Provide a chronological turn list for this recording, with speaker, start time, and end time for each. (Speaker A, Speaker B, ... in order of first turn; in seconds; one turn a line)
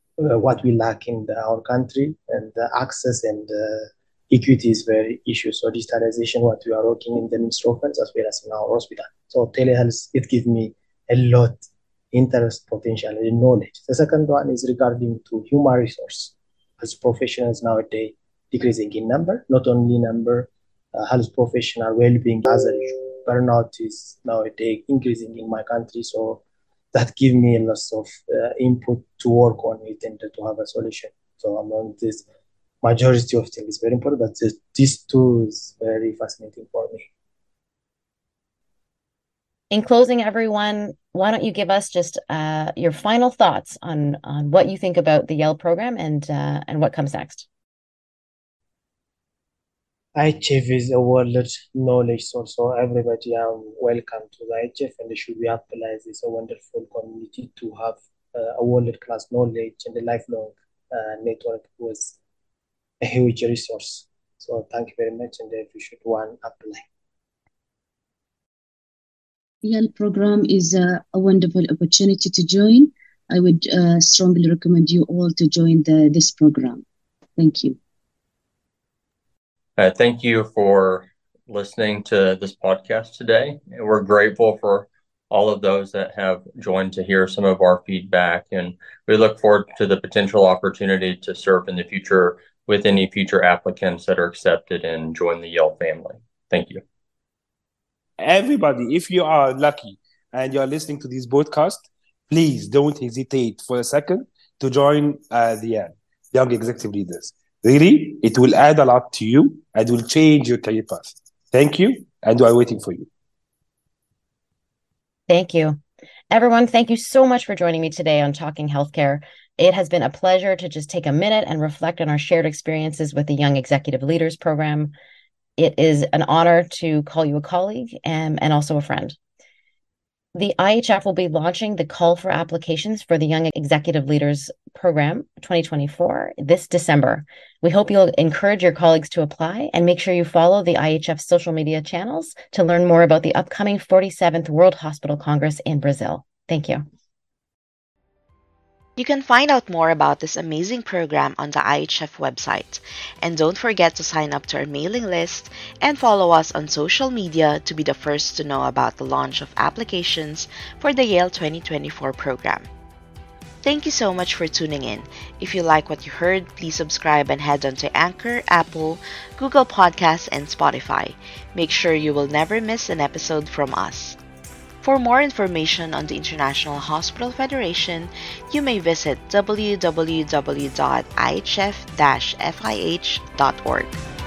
Speaker A: 0.2-26.4
Speaker A: 26.9-32.2
Speaker A: 32.8-37.1
Speaker B: 39.7-47.5
Speaker A: 50.1-62.2
Speaker A: 63.0-66.8
Speaker C: 69.6-76.8
Speaker C: 77.4-77.8
Speaker D: 79.8-96.8
Speaker E: 98.2-113.1
Speaker B: 115.3-124.9
Speaker B: 125.6-129.2
Speaker B: 130.3-146.8
Speaker F: 149.0-162.7
Speaker F: 163.6-174.2
Speaker F: 174.8-184.0